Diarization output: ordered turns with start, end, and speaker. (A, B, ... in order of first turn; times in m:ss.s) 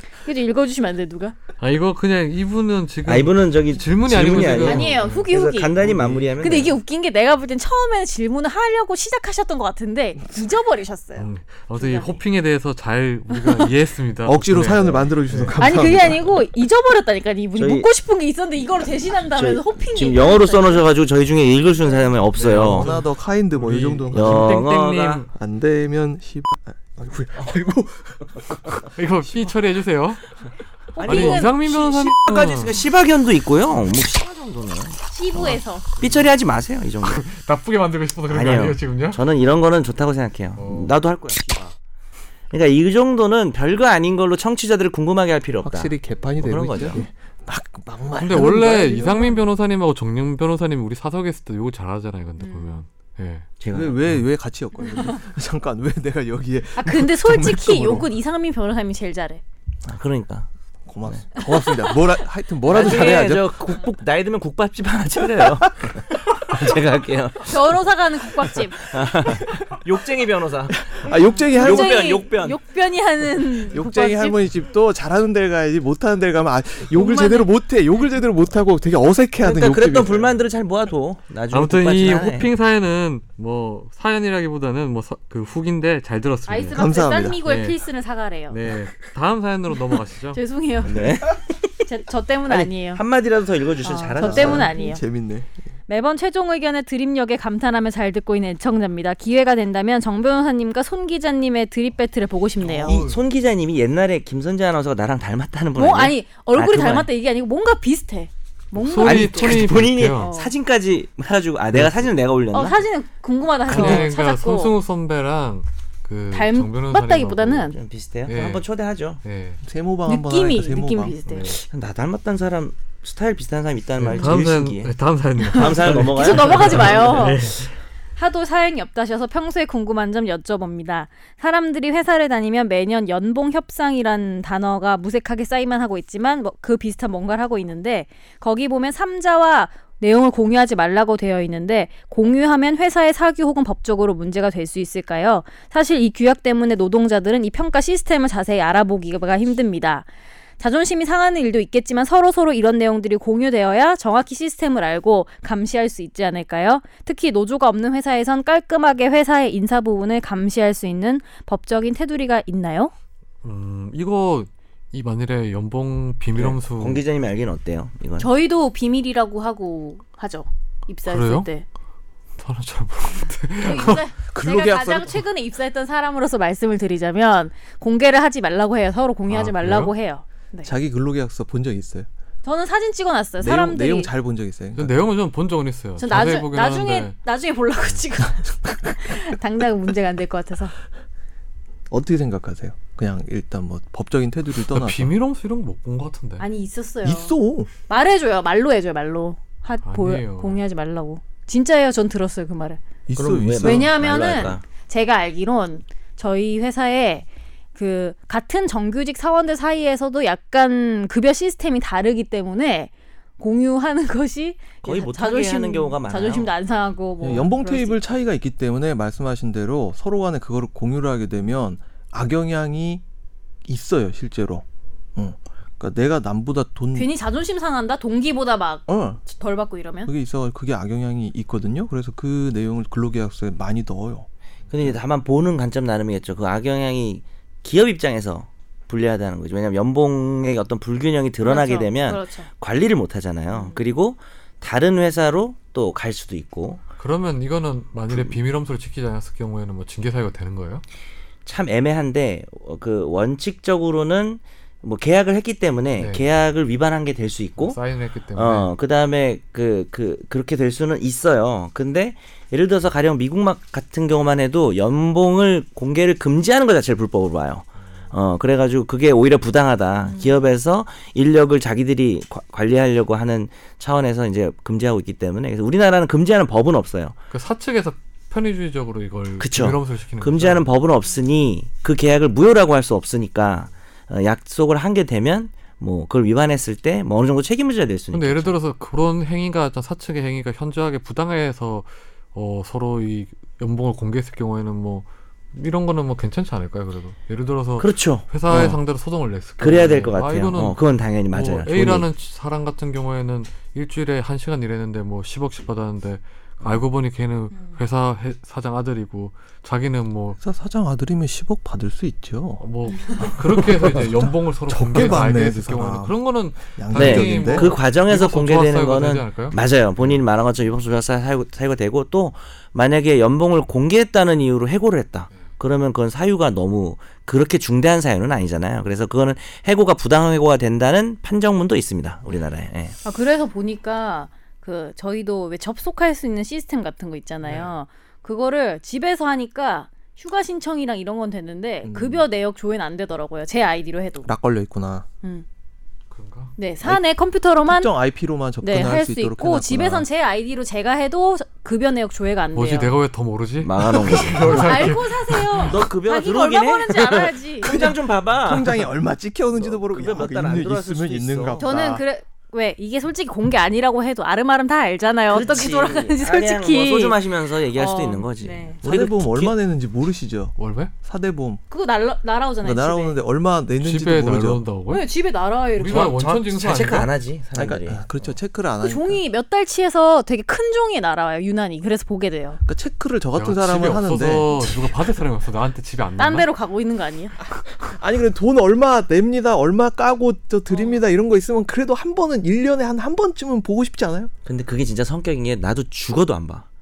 0:00.2-0:01.4 A
0:01.6-0:05.2 B
0:03.1-0:06.8 C
0:04.5-0:05.8 A
0:05.8-0:06.2 B
0:06.4-0:12.1 A
0:11.2-0:15.6 B
0:13.3-0:13.6 A
0:14.2-0:16.2 D
0:15.6-0:20.8 A
0:17.6-0:17.9 C
0:19.3-0:22.9 C
0:22.4-0:25.3 B
0:22.5-0:24.6 D
0:24.1-0:25.2 C
0:25.3-0:28.9 D
0:29.0-0:30.2 B
0:30.9-0:31.6 A
0:31.0-0:37.2 C
0:31.0-0:32.9 B
0:35.1-0:35.9 A
0:37.0-0:39.2 B
0:38.3-0:41.8 C
0:40.6-0:41.0 B
0:42.5-0:47.0 C
0:45.6-0:49.3 D
0:48.2-0:53.5 B
0:52.4-0:52.8 A
0:53.6-0:54.0 C
0:53.7-0:58.1 D
0:56.8-0:59.4 A
0:59.8-1:00.5 C
1:00.9-1:03.6 D
1:01.4-1:02.0 A
1:02.7-1:07.6 C
1:07.4-1:08.9 A
1:08.8-1:11.0 C
1:10.8-1:12.1 D
1:11.1-1:14.4 A
1:11.5-1:12.6 C
1:13.7-1:20.3 D
1:16.9-1:17.5 A
1:19.4-1:22.5 C
1:21.5-1:26.8 B
1:26.5-1:28.6 A
1:26.7-1:27.4 D
1:27.4-1:27.8 B
1:28.5-1:30.4 B
1:30.3-1:31.2 A
1:30.8-1:31.8 C
1:31.9-1:33.0 A
1:32.5-1:34.7 C
1:33.8-1:35.0 A
1:34.2-1:35.5 D
1:35.9-1:43.0 A
1:42.6-1:43.2 D
1:42.8-1:47.1 C
1:45.8-1:50.5 A
1:48.8-1:50.3 B
1:49.0-1:52.8 C
1:51.7-1:52.1 B
1:52.5-1:54.7 A
1:53.7-1:57.7 B
1:53.7-1:54.1 C
1:56.3-1:57.8 A
1:57.7-1:59.2 C
1:58.3-1:58.6 B
1:59.2-1:59.6 B
1:59.6-2:01.2 D
2:00.1-2:01.6 A
2:01.3-2:01.6 B
2:01.4-2:04.9 C
2:04.0-2:07.7 B
2:05.4-2:07.6 A
2:05.5-2:07.4 C
2:08.2-2:30.1 A
2:30.6-2:42.9 A
2:43.4-2:47.0 B
2:46.4-2:48.3 C
2:48.2-2:51.6 A
2:51.1-2:51.5 B
2:52.4-2:54.0 B
2:53.6-3:00.7 A
2:54.3-2:55.2 D
2:59.3-2:59.9 B
3:00.6-3:02.1 D
3:02.4-3:04.1 A
3:03.4-3:05.0 D
3:04.8-3:07.2 B
3:06.0-3:10.7 A
3:11.9-3:15.1 D
3:14.6-3:16.4 B
3:16.4-3:17.4 A
3:17.0-3:17.7 D
3:17.9-3:22.8 A
3:19.8-3:20.6 B
3:23.1-3:23.9 D
3:23.2-3:24.6 C
3:23.6-3:38.1 A
3:34.8-3:36.5 C
3:37.2-3:43.0 D
3:43.7-3:44.6 D
3:45.2-3:47.1 D
3:47.0-3:50.1 A
3:48.9-3:49.2 D
3:50.0-3:54.3 D
3:54.7-4:06.8 C
4:01.4-4:02.5 A
4:03.5-4:03.8 A
4:07.0-4:10.8 B
4:08.1-4:08.4 C
4:11.5-4:17.8 C
4:16.0-4:16.2 B
4:17.6-4:18.7 B
4:18.3-4:37.2 C
4:30.1-4:30.3 A
4:37.3-4:40.7 B
4:39.4-4:48.6 C
4:48.1-5:00.8 B
4:57.8-4:58.8 C
4:59.6-5:02.1 C
5:01.3-5:10.4 B
5:10.4-5:12.6 D
5:12.6-5:20.1 B
5:13.2-5:16.2 D
5:16.7-5:17.7 D
5:16.9-5:33.0 C
5:33.0-5:44.3 A
5:37.4-5:37.7 B
5:41.8-5:42.2 D
5:44.2-5:45.1 D
5:46.1-5:46.5 B
5:46.6-5:47.9 A
5:47.7-5:50.1 D
5:48.6-5:52.9 A
5:52.6-5:55.8 B
5:53.6-5:54.9 C
5:54.5-5:57.8 A
5:55.6-5:58.9 C
5:57.6-6:02.0 D
5:59.5-6:01.7 C
6:01.6-6:07.2 A
6:05.3-6:09.6 C
6:07.7-6:08.8 A
6:08.8-6:11.6 D
6:10.6-6:10.9 B
6:11.7-6:13.2 A
6:12.6-6:14.6 D
6:13.8-6:15.1 B
6:14.9-6:16.3 A
6:15.8-6:17.1 B
6:15.9-6:18.0 C
6:17.6-6:19.2 D
6:18.8-6:22.6 A
6:22.6-6:24.9 D
6:23.3-6:26.5 B
6:26.2-6:27.4 A
6:27.5-6:34.3 D
6:30.7-6:31.0 A
6:34.4-6:36.7 C